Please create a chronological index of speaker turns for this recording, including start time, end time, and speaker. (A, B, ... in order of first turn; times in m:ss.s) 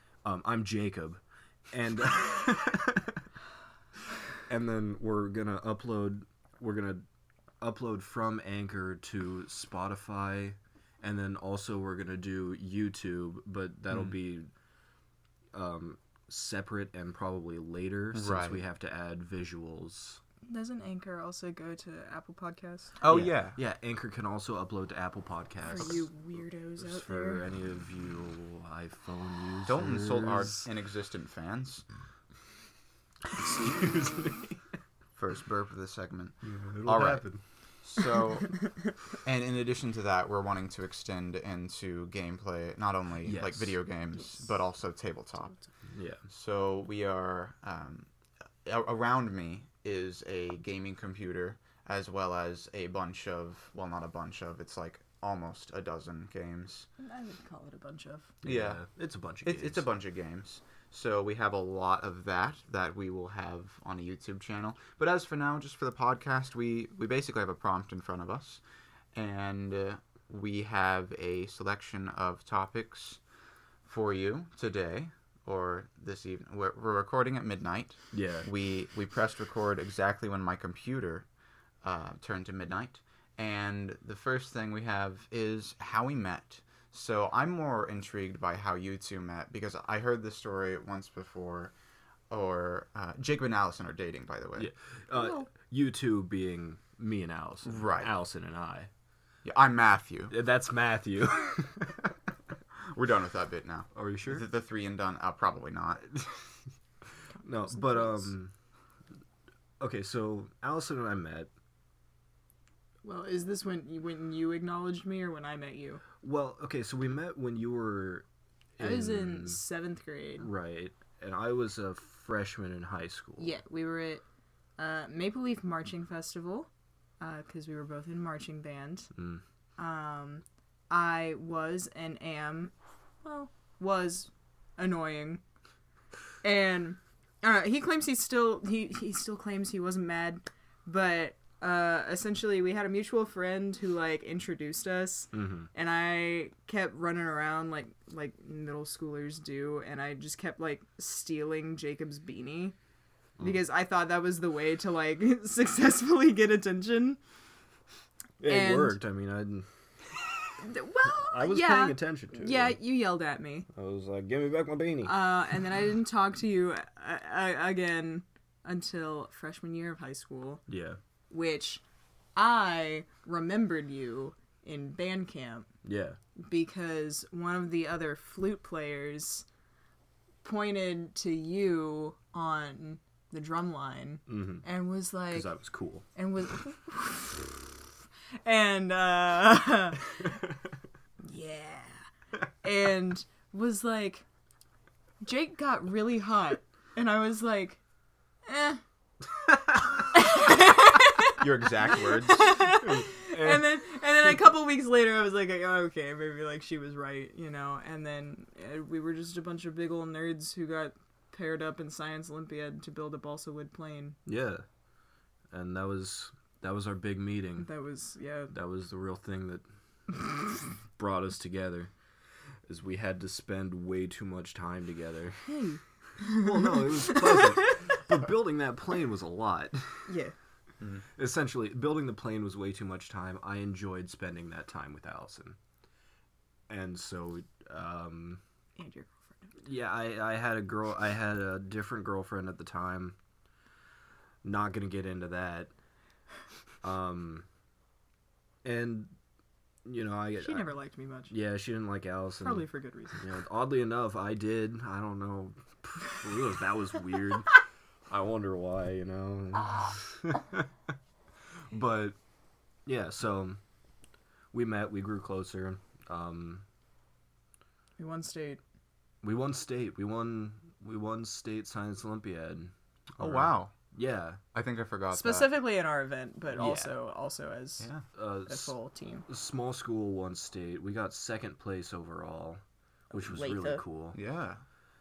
0:00.2-0:03.2 A
0:04.5-0:07.0 A
0:07.6-0:14.5 A
0:15.5-0:20.2 A
0:18.1-0:18.6 B
0:20.5-0:23.0 C
0:23.0-0:23.6 B
0:23.1-0:26.1 A
0:25.7-0:27.4 C
0:26.8-0:30.7 A
0:29.7-0:31.9 B
0:33.4-0:34.5 A
0:35.2-0:45.6 B
0:36.4-0:37.4 A
0:43.2-0:43.8 A
0:45.9-0:46.2 A
0:46.3-0:48.1 B
0:48.6-0:56.9 B
0:57.0-0:58.3 C
0:58.4-0:59.8 A
0:58.4-0:58.8 B
0:59.4-1:08.6 B
1:09.2-1:13.2 B
1:13.8-1:21.3 B
1:18.1-1:18.5 A
1:21.8-1:31.7 B
1:32.3-1:34.7 B
1:34.6-1:38.9 A
1:35.2-1:35.4 C
1:37.6-1:38.1 B
1:39.4-1:40.3 B
1:40.3-1:42.1 A
1:42.9-1:46.1 B
1:43.9-1:44.4 A
1:47.4-1:48.5 A
1:47.5-1:48.3 C
1:49.8-1:51.5 A
1:53.0-1:56.0 C
1:56.2-1:58.2 A
1:58.8-1:59.6 A
1:58.8-2:00.5 C
2:00.4-2:03.6 A
2:03.4-2:04.2 C
2:04.8-2:06.7 C
2:07.2-2:09.1 C
2:09.2-2:09.4 A
2:09.8-2:12.7 C
2:13.2-2:15.4 C
2:16.4-2:32.8 C
2:25.3-2:25.7 A
2:33.4-2:37.2 C
2:38.4-2:39.7 A
2:38.4-2:39.0 C
2:40.3-2:40.6 A
2:40.6-2:43.7 C
2:41.3-2:42.8 A
2:43.7-2:45.3 A
2:45.0-2:50.6 C
2:50.7-2:51.0 A
2:51.3-2:51.8 C
2:52.4-2:55.7 C
2:55.8-2:56.2 A
2:56.4-2:59.4 C
3:00.4-3:05.6 C
3:04.3-3:04.6 A
3:05.3-3:06.0 A
3:06.2-3:07.8 C
3:08.4-3:10.3 C
3:11.2-3:12.0 C
3:12.6-3:14.2 C
3:15.2-3:17.8 C
3:18.5-3:18.8 C
3:20.0-3:34.2 C
3:21.4-3:22.5 B
3:22.7-3:23.7 A
3:34.3-3:34.6 A
3:35.5-3:37.7 A
3:37.6-3:38.5 C
3:38.5-3:39.6 A
3:41.0-3:41.9 A
3:42.7-3:45.4 A
3:45.5-3:47.7 C
3:46.3-3:50.1 A
3:50.1-3:50.4 C
3:51.2-3:55.6 A
3:56.7-3:58.4 A
3:58.8-3:59.6 C
3:59.6-4:03.2 A
4:04.4-4:05.7 A
4:06.8-4:07.4 A
4:08.6-4:09.1 A
4:09.8-4:10.7 A
4:10.4-4:11.3 C
4:11.3-4:17.6 A
4:12.4-4:13.2 C
4:18.1-4:20.7 A
4:21.7-4:22.2 A
4:22.9-4:23.6 A
4:24.5-4:26.6 A
4:28.0-4:28.6 C
4:29.2-4:34.4 A
4:33.2-4:33.7 B
4:34.5-4:35.5 B
4:35.1-4:39.2 C
4:36.5-4:36.9 A
4:38.1-4:38.8 A
4:39.3-4:42.6 A
4:43.1-4:43.8 C
4:43.1-4:44.2 A
4:44.1-4:44.6 B